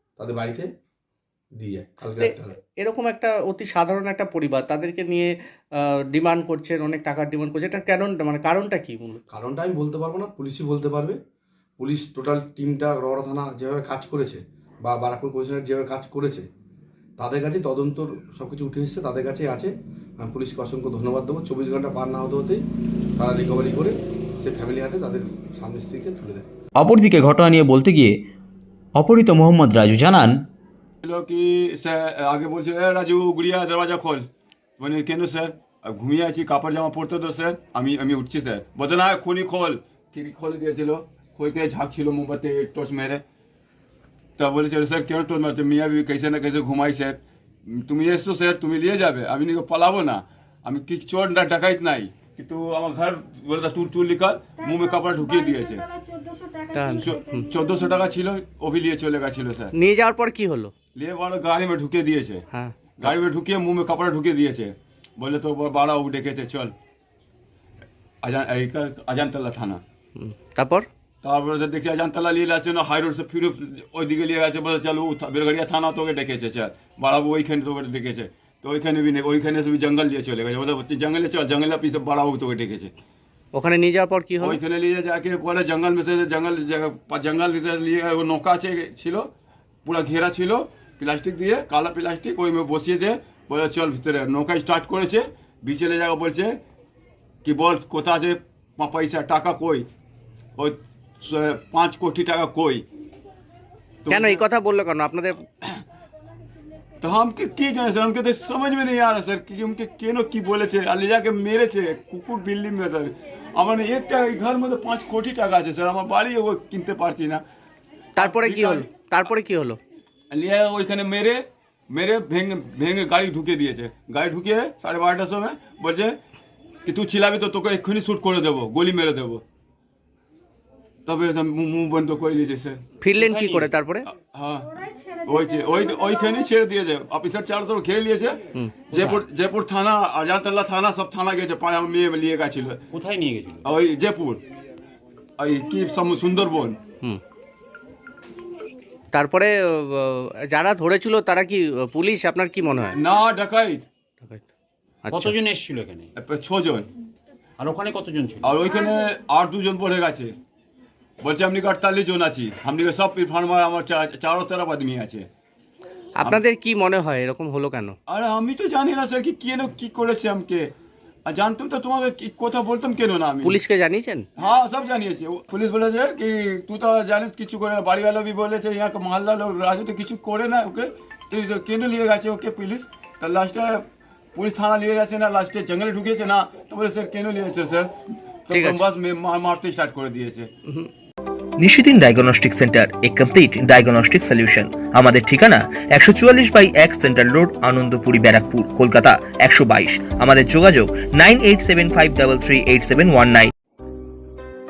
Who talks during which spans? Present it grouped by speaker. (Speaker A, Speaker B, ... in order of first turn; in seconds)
Speaker A: 0.2-0.7, 1.6-2.6, 9.3-11.2, 11.8-16.4, 17.2-22.6, 23.2-26.5
Speaker B: 2.1-5.3, 6.1-9.2, 56.7-57.1, 59.8-60.7, 62.5-63.1, 70.2-70.9, 83.5-84.6, 104.1-105.4, 118.2-119.8, 133.0-134.1, 149.1-152.9, 155.1-155.3, 166.2-167.9, 173.4-174.2, 188.5-188.8
Speaker C: 26.8-28.1, 29.0-30.4
Speaker D: 31.0-34.2, 34.8-43.2, 44.4-47.2, 47.7-55.9, 56.9-59.7, 60.9-62.4, 63.0-66.7, 68.2-69.8, 71.2-82.9, 84.4-89.3, 89.8-96.6, 97.4-99.9, 100.6-102.8, 104.1-104.4, 107.0-117.4, 118.2-119.3, 120.3-126.2, 126.9-129.4, 131.1-132.8, 134.1-142.8, 143.6-144.4, 145.4-146.8, 152.9-153.9, 156.2-156.9, 158.4-160.3, 161.2-165.3, 168.1-170.7, 171.3-173.6, 174.4-187.9, 188.5-190.5
Speaker E: 133.1-133.7, 138.9-139.2, 142.9-143.7, 155.1-156.1, 157.6-158.5
Speaker F: 191.6-203.5